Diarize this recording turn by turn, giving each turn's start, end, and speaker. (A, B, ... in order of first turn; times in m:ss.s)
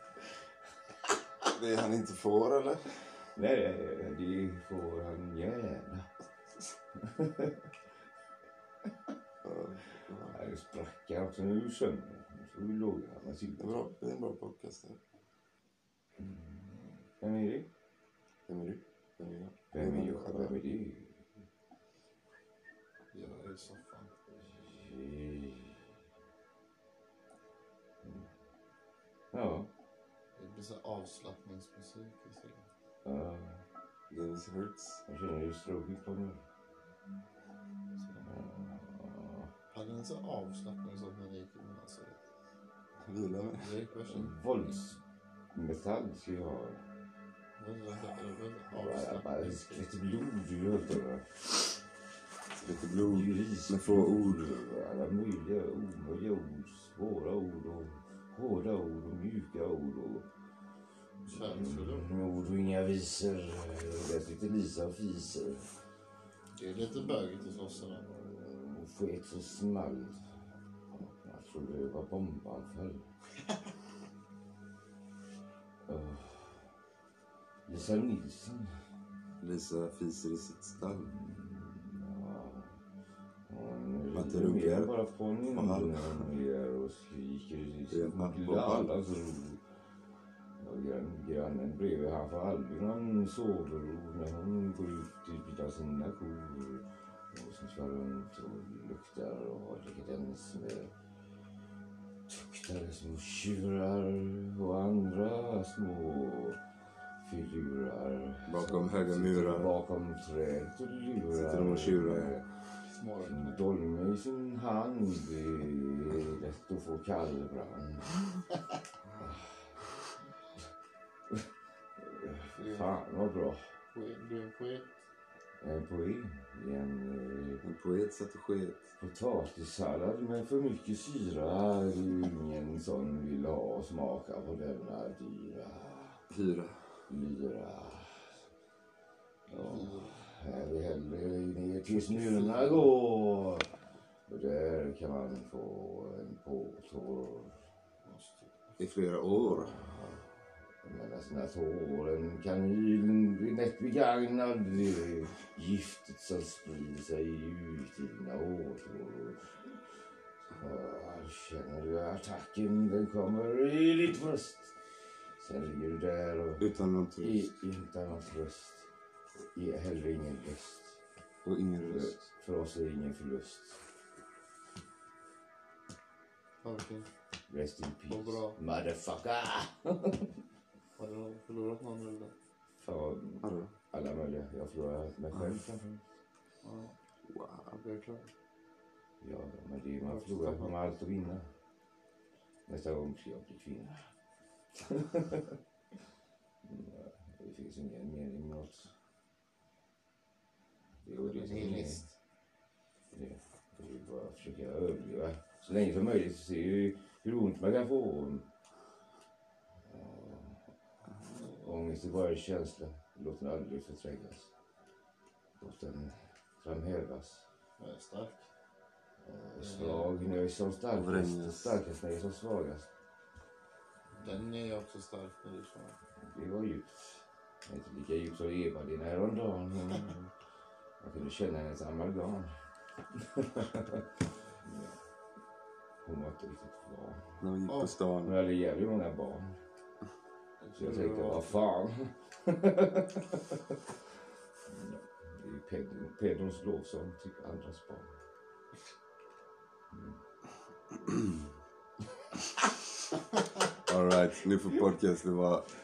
0:01.4-0:03.1 A
0:03.4-0:06.1 B
0:07.0-0:07.7 B
0:09.4-0:10.4 A
0:10.3-0:13.8 B
0:13.6-0:15.0 A
0:16.2-0:17.7 B
0:18.5-0:20.6 A
0:19.7-0:21.2 B
0:23.1-0:24.1 C
0:24.4-0:25.9 B
0:28.0-0:28.3 B
0:29.3-0:29.7 B
0:30.4-0:32.7 C
0:33.0-0:33.6 B
0:34.1-0:35.0 A
0:35.1-0:36.4 B
0:38.0-0:38.3 C
0:38.2-0:39.5 B
0:39.7-0:42.2 C
0:43.0-0:43.7 A
0:43.5-0:44.4 C
0:44.1-0:45.0 B
0:45.5-0:46.8 B
0:47.6-0:49.9 C
0:48.7-0:51.5 B
0:52.5-0:54.6 A
0:53.0-1:00.3 B
1:01.2-1:05.8 B
1:01.3-1:02.1 C
1:06.5-1:08.1 C
1:08.0-1:10.2 B
1:10.9-1:13.0 B
1:15.9-1:16.7 B
1:17.7-1:18.7 B
1:19.4-1:21.1 A
1:20.8-1:22.8 B
1:23.5-1:29.6 B
1:24.1-1:24.9 A
1:25.5-1:26.2 A
1:27.9-1:28.9 A
1:30.6-1:40.9 B
1:42.3-1:46.6 B
1:47.2-1:52.4 B
1:48.5-1:49.7 A
1:51.3-1:52.5 A
1:52.8-1:53.6 C
1:53.2-1:58.2 B
1:59.2-1:59.8 B
2:02.0-2:03.7 B
2:02.5-2:02.9 C
2:03.9-2:05.0 C
2:05.6-2:07.6 B
2:07.6-2:08.9 A
2:09.0-2:16.2 B
2:16.3-2:16.9 A
2:17.1-2:18.4 B
2:19.5-2:20.2 C
2:19.5-2:23.7 B
2:21.8-2:23.0 C
2:24.3-2:27.6 B
2:28.0-2:28.8 C
2:28.8-2:29.8 A
2:29.3-2:39.8 B
2:40.6-2:44.8 B
2:45.4-2:48.9 B
2:46.6-2:47.5 A
2:49.5-2:51.0 B
2:51.4-2:52.2 A
2:51.9-2:53.8 B
2:56.6-2:57.1 C
2:57.5-3:00.3 B
2:58.1-2:58.6 C
3:01.0-3:02.3 C
3:02.8-3:06.0 B
3:03.4-3:03.8 A
3:05.3-3:05.6 A
3:06.6-3:07.0 C
3:07.2-3:07.8 A
3:07.7-3:08.3 C
3:09.2-3:11.5 B
3:10.0-3:10.8 C
3:12.7-3:14.1 B
3:14.8-3:15.6 B
3:16.6-3:18.9 B
3:21.0-3:22.0 B
3:21.2-3:22.1 C
3:23.1-3:28.5 B
3:29.8-3:30.7 B
3:31.3-3:34.5 B
3:35.6-3:37.5 B
3:37.8-3:38.5 C
3:39.2-3:42.9 B
3:39.5-3:40.2 C
3:41.0-3:41.8 A
3:44.2-3:46.0 C
3:46.2-3:50.3 B
3:51.0-3:52.5 B
3:53.2-3:54.1 B
3:54.6-3:55.0 B
3:56.0-3:57.4 B
3:57.4-3:58.4 A
3:57.6-3:57.9 C
3:58.2-3:59.6 B
4:00.6-4:01.6 C
4:00.8-4:03.8 B
4:04.7-4:08.1 B
4:09.9-4:10.2 B
4:13.9-4:15.7 A